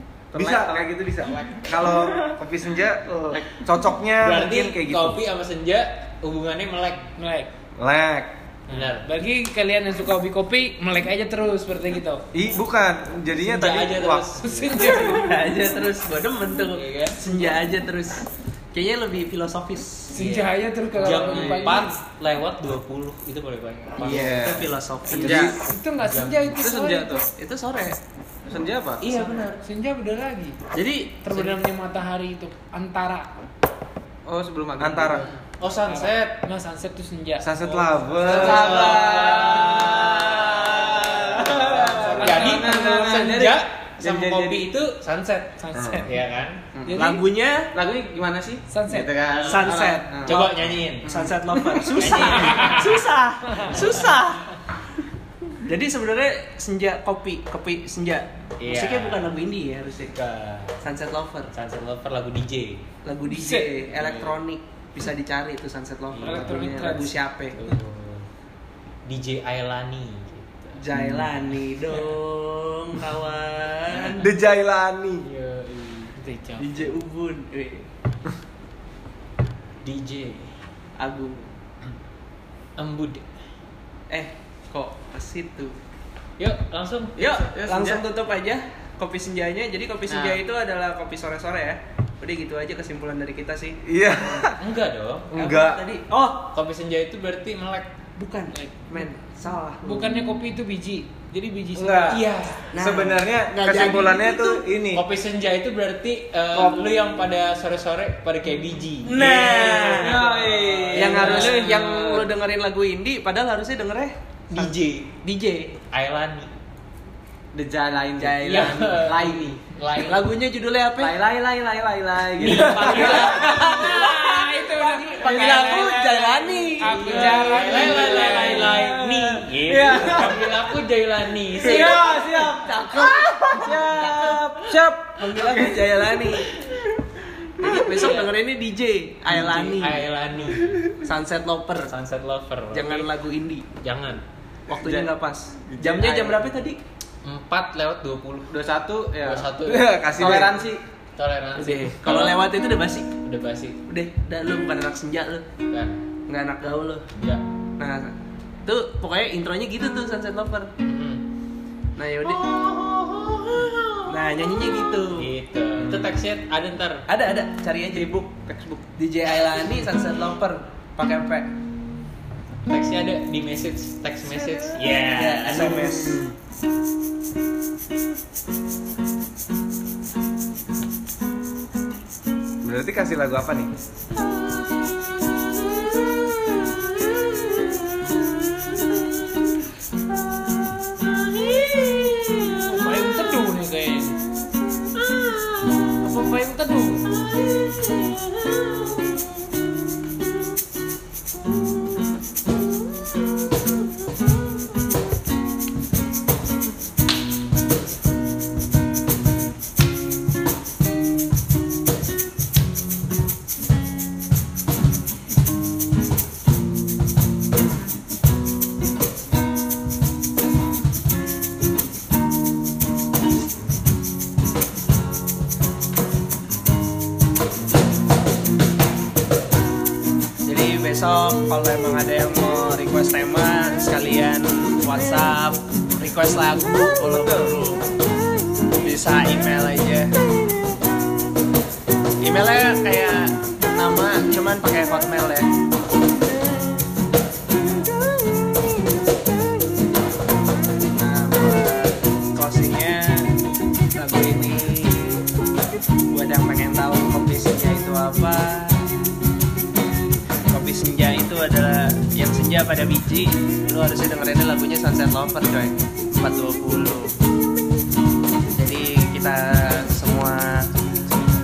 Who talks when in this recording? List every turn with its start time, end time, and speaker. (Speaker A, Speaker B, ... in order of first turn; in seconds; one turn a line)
Speaker A: 0.3-1.7
Speaker B: 0.3-5.2
Speaker C: 4.2-7.1
Speaker D: 7.2-7.5
Speaker B: 7.8-8.3
Speaker C: 8.7-9.1
Speaker D: 9.0-12.2
Speaker B: 12.3-14.4
Speaker C: 13.4-15.0
Speaker D: 14.4-15.5
Speaker E: 15.0-20.2
Speaker C: 16.7-17.2
Speaker D: 20.1-22.0
Speaker C: 20.1-24.6
Speaker A: 21.1-21.8
Speaker B: 24.0-25.6
Speaker E: 24.0-25.6
Speaker A: 25.2-25.6
Speaker D: 25.6-27.3
Speaker C: 26.0-26.5
Speaker A: 26.6-27.2
Speaker E: 27.3-28.0
Speaker A: 28.5-29.0
Speaker C: 29.0-29.6
Speaker D: 29.0-30.6
Speaker E: 30.7-31.6
Speaker D: 31.2-33.3
Speaker A: 34.2-35.3
Speaker B: 34.8-35.2
Speaker C: 35.6-36.4
Speaker D: 35.8-38.3
Speaker B: 37.4-39.0
Speaker C: 38.3-46.6
Speaker A: 38.3-40.5
Speaker E: 38.3-39.5
Speaker B: 39.9-42.4
Speaker A: 41.4-44.7
Speaker D: 42.0-43.1
Speaker D: 45.6-46.1
Speaker B: 45.7-46.1
Speaker D: 46.9-47.2
Speaker E: 46.9-47.7
Speaker A: 47.7-50.4
Speaker D: 48.7-49.4
Speaker B: 48.9-49.1
Speaker C: 49.2-52.9
Speaker E: 49.4-50.5
Speaker E: 51.0-54.5
Speaker D: 52.2-52.9
Speaker D: 53.5-53.8
Speaker C: 53.8-54.1
Speaker E: 55.6-60.1
Speaker C: 58.6-59.3
Speaker C: 59.9-60.8
Speaker E: 60.8-61.5
Speaker C: 61.5-62.8
Speaker E: 63.0-67.6
Speaker D: 63.3-63.7
Speaker C: 63.9-64.4
Speaker C: 66.1-68.3
Speaker D: 66.2-67.2
Speaker C: 69.0-70.8
Speaker E: 70.8-74.2
Speaker C: 71.8-72.2
Speaker B: 74.1-75.2
Speaker C: 75.2-77.0
Speaker E: 76.6-77.9
Speaker C: 79.8-80.5
Speaker E: 81.0-81.5
Speaker C: 82.8-83.2
Speaker E: 84.1-85.7
Speaker C: 86.4-87.4
Speaker E: 87.2-94.4
Speaker A: 87.2-88.1
Speaker A: 90.1-90.4
Speaker B: 93.8-94.6
Speaker C: 94.6-95.3
Speaker B: 95.3-95.8
Speaker E: 95.3-96.5
Speaker C: 96.5-97.9
Speaker E: 98.2-100.1
Speaker D: 98.5-98.9
Speaker D: 99.8-102.2
Speaker B: 101.7-105.0
Speaker C: 102.1-102.7
Speaker E: 102.7-104.6
Speaker C: 104.9-111.7
Speaker E: 109.0-110.2
Speaker B: 109.2-110.0
Speaker A: 109.5-112.3
Speaker E: 110.9-115.7
Speaker C: 114.5-115.1
Speaker C: 115.9-116.5
Speaker A: 117.5-119.5
Speaker E: 118.2-119.2
Speaker C: 118.4-120.3
Speaker E: 120.0-121.2
Speaker A: 121.0-123.3
Speaker C: 122.4-124.1
Speaker B: 122.5-122.8
Speaker E: 122.5-128.9
Speaker D: 122.7-126.0
Speaker A: 125.2-130.4
Speaker D: 126.8-128.8
Speaker C: 127.0-132.1
Speaker A: 131.6-135.4
Speaker E: 131.7-134.4
Speaker E: 135.2-136.5
Speaker E: 137.6-140.0
Speaker C: 137.7-138.3
Speaker C: 139.3-141.0
Speaker E: 141.0-141.9
Speaker C: 141.8-143.1
Speaker E: 142.7-143.7
Speaker C: 143.8-144.2
Speaker E: 144.7-146.8
Speaker A: 144.8-145.1
Speaker A: 145.8-146.5
Speaker C: 147.2-148.5
Speaker A: 148.5-149.6
Speaker C: 149.2-150.0
Speaker B: 149.6-150.7
Speaker A: 150.1-150.8
Speaker C: 151.2-153.8
Speaker E: 151.6-153.1
Speaker E: 153.9-155.5
Speaker C: 155.7-156.0
Speaker E: 156.3-157.1
Speaker E: 157.8-160.7
Speaker C: 160.8-161.2
Speaker E: 162.0-162.4
Speaker C: 162.2-167.0
Speaker E: 164.1-165.3
Speaker B: 165.8-166.1
Speaker E: 167.1-168.3
Speaker A: 167.9-168.8
Speaker E: 169.0-171.5
Speaker C: 172.7-176.2
Speaker E: 174.9-176.2
Speaker B: 175.5-176.2
Speaker B: 182.6-183.7
Speaker C: 191.7-192.5
Speaker D: 192.6-194.2
Speaker D: 196.0-197.0
Speaker E: 230.4-237.8
Speaker E: 238.8-240.1
Speaker E: 242.2-245.5
Speaker E: 250.9-253.4
Speaker E: 253.9-255.2
Speaker E: 256.1-258.9
Speaker E: 260.5-267.1
Speaker E: 268.5-270.7